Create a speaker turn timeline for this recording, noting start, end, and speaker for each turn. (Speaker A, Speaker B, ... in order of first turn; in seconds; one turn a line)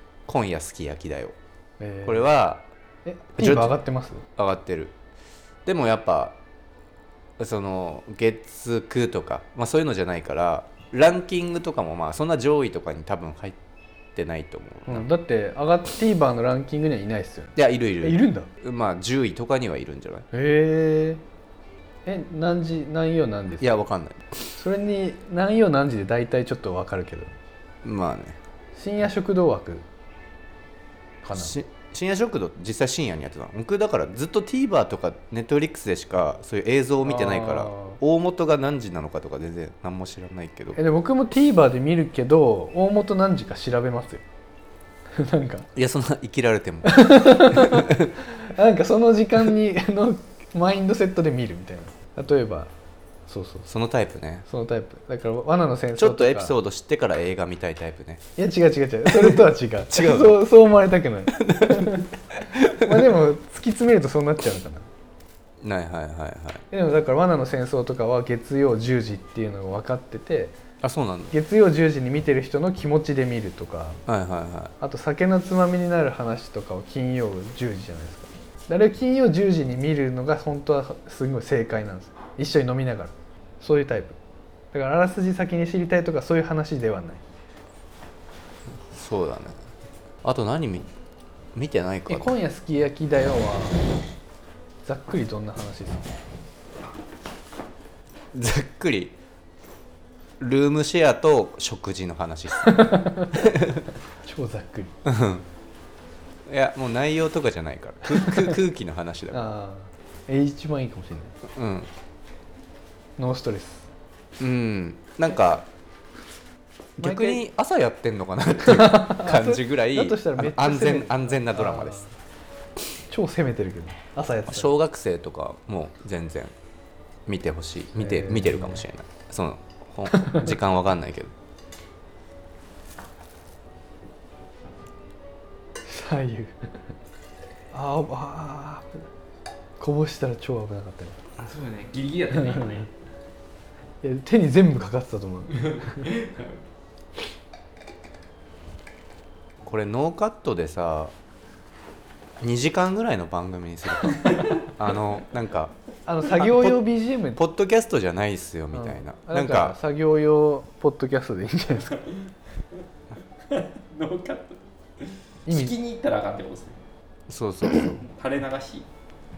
Speaker A: 0.3-1.3
Speaker B: 1.8-2.3
Speaker A: 2.0-2.6
Speaker B: 3.0-4.2
Speaker A: 3.4-3.7
Speaker A: 4.3-4.9
Speaker A: 5.6-6.3
Speaker A: 7.4-13.6
Speaker A: 14.1-15.1
Speaker B: 14.8-18.5
Speaker A: 17.5-20.2
Speaker B: 20.3-21.2
Speaker B: 22.1-23.7
Speaker A: 23.6-24.3
Speaker B: 24.6-27.3
Speaker A: 27.8-28.4
Speaker B: 28.8-29.8
Speaker B: 31.2-31.5
Speaker A: 31.3-40.8
Speaker B: 37.0-38.0
Speaker B: 40.7-44.2
Speaker B: 45.1-45.7
Speaker A: 45.8-48.1
Speaker B: 46.8-52.7
Speaker B: 53.3-53.7
Speaker A: 53.7-54.5
Speaker B: 54.5-56.5
Speaker A: 56.0-58.2
Speaker B: 58.4-64.9
Speaker A: 59.1-60.4
Speaker A: 61.4-62.0
Speaker A: 62.5-62.9
Speaker A: 65.6-66.6
Speaker B: 66.7-70.6
Speaker A: 70.8-71.3
Speaker B: 71.3-74.0
Speaker A: 74.0-74.7
Speaker B: 74.8-84.2
Speaker B: 84.7-87.2
Speaker A: 88.9-89.6
Speaker A: 90.2-90.9
Speaker A: 91.5-92.3
Speaker B: 92.1-93.8
Speaker B: 94.8-96.1
Speaker A: 98.3-99.1
Speaker A: 100.4-103.8
Speaker B: 102.6-103.4
Speaker B: 104.2-104.9
Speaker A: 105.0-105.5
Speaker A: 106.5-109.4
Speaker B: 109.3-111.3
Speaker A: 111.5-111.9
Speaker B: 113.2-113.9
Speaker A: 114.4-115.7
Speaker A: 117.0-122.0
Speaker B: 117.0-117.4
Speaker B: 118.6-122.1
Speaker B: 123.1-124.7
Speaker A: 124.5-126.5
Speaker A: 127.2-131.3
Speaker B: 128.0-128.8
Speaker B: 130.2-130.5
Speaker B: 135.9-136.6
Speaker B: 137.7-138.9
Speaker B: 139.8-141.2
Speaker C: 141.4-142.9
Speaker B: 144.0-146.1
Speaker C: 145.7-146.6
Speaker A: 149.6-151.1
Speaker A: 152.4-155.7
Speaker B: 156.1-157.4
Speaker A: 156.3-156.8
Speaker A: 157.3-159.8
Speaker B: 158.7-162.0
Speaker C: 163.5-166.8
Speaker B: 165.5-165.7
Speaker A: 167.3-168.1
Speaker C: 167.7-168.8